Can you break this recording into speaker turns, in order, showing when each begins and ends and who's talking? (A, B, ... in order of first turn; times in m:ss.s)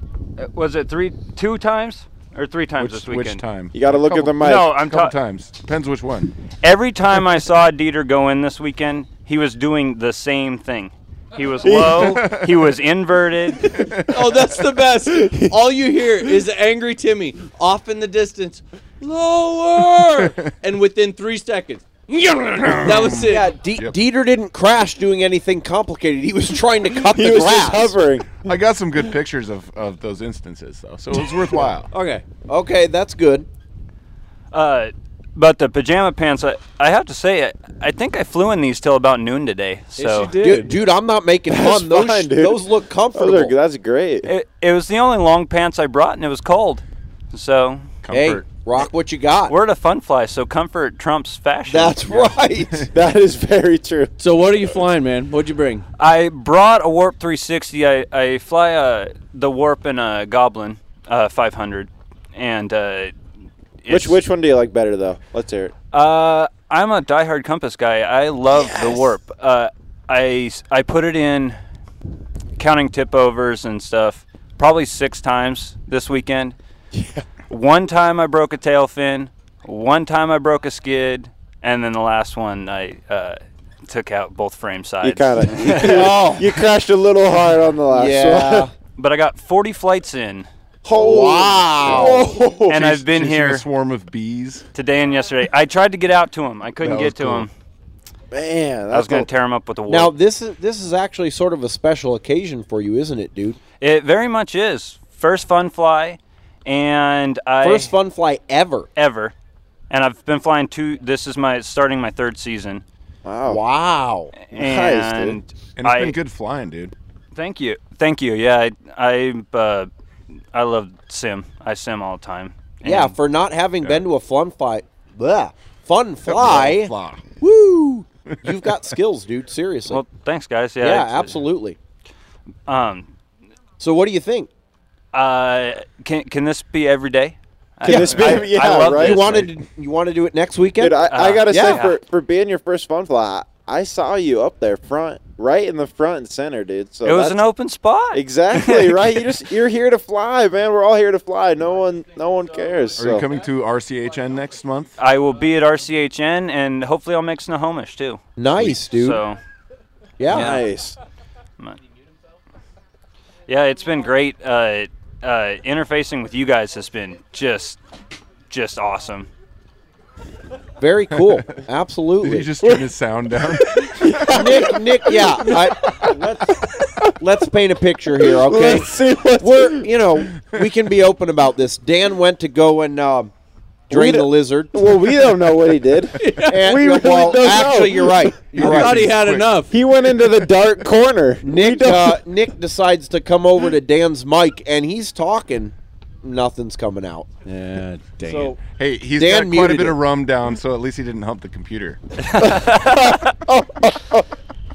0:00.4-0:03.4 A
0:02.8-0:06.3 B
0:03.7-0:04.8 C
0:04.3-0:05.1 A
0:06.6-0:13.7 A
0:11.6-0:12.3 C
0:12.0-0:12.6 B
0:13.7-0:14.2 B
0:13.9-0:23.5 D
0:20.2-0:20.5 B
0:22.6-0:24.0 B
0:23.2-0:28.0 E
0:27.1-0:28.3 C
0:28.4-0:31.9 B
0:31.9-0:32.2 D
0:32.5-0:33.5 E
0:34.5-0:40.3 A
0:39.9-0:40.7 D
0:40.3-0:43.5 E
0:41.5-0:44.3 C
0:44.2-0:47.9 A
0:48.0-0:48.4 B
0:48.1-0:49.6 E
0:49.5-0:52.3 A
0:51.6-0:52.9 E
0:52.9-0:54.1 C
0:54.2-0:55.8 D
0:56.0-1:03.1 A
1:03.8-1:04.2 A
1:03.9-1:05.7 C
1:05.9-1:11.6 A
1:08.5-1:09.0 C
1:12.6-1:16.5 A
1:17.5-1:25.9 A
1:25.0-1:28.7 C
1:25.7-1:26.5 E
1:27.9-1:28.7 E
1:29.0-1:30.5 A
1:30.8-1:32.9 C
1:30.9-1:32.3 E
1:31.8-1:34.6 B
1:32.7-1:33.6 A
1:34.7-1:37.5 A
1:36.8-1:37.5 B
1:38.3-1:39.3 C
1:38.9-1:40.1 A
1:39.8-1:43.6 E
1:43.8-1:47.9 A
1:47.6-1:48.9 E
1:49.0-1:49.3 A
1:49.9-1:52.8 A
1:53.2-1:53.6 C
1:53.4-1:54.3 E
1:54.3-1:56.2 A
1:54.5-1:55.4 C
1:55.8-1:56.9 B
1:57.3-1:59.9 A
2:00.5-2:03.2 A
2:02.8-2:10.0 E
2:06.2-2:07.3 B
2:09.9-2:11.5 A
2:10.8-2:11.8 E
2:12.7-2:13.1 A
2:13.8-2:14.5 E
2:15.1-2:19.5 A
2:17.8-2:19.5 C
2:17.8-2:21.9 E
2:20.8-2:27.4 C
2:21.0-2:22.0 A
2:27.0-2:29.1 A
2:28.1-2:33.2 C
2:32.9-2:35.0 B
2:35.0-2:39.4 A
2:38.4-2:39.2 E
2:40.2-2:40.6 E
2:40.3-2:41.0 C
2:40.3-2:40.6 A
2:43.5-2:47.8 A
2:48.5-2:49.3 A
2:50.8-2:52.5 E
2:51.2-2:51.6 B
2:52.2-2:54.4 B
2:53.8-2:56.3 C
2:54.3-2:56.6 E
2:57.2-3:03.3 E
2:58.2-3:00.0 C
3:03.9-3:04.9 E
3:03.9-3:08.3 C
3:06.2-3:06.9 D
3:06.5-3:09.2 E
3:08.5-3:09.6 B
3:08.5-3:09.7 D
3:09.7-3:12.2 C
3:11.4-3:17.3 E
3:17.4-3:18.6 D
3:18.3-3:18.5 E
3:18.4-3:22.0 B
3:19.2-3:20.0 E
3:22.2-3:23.1 A
3:22.4-3:24.2 C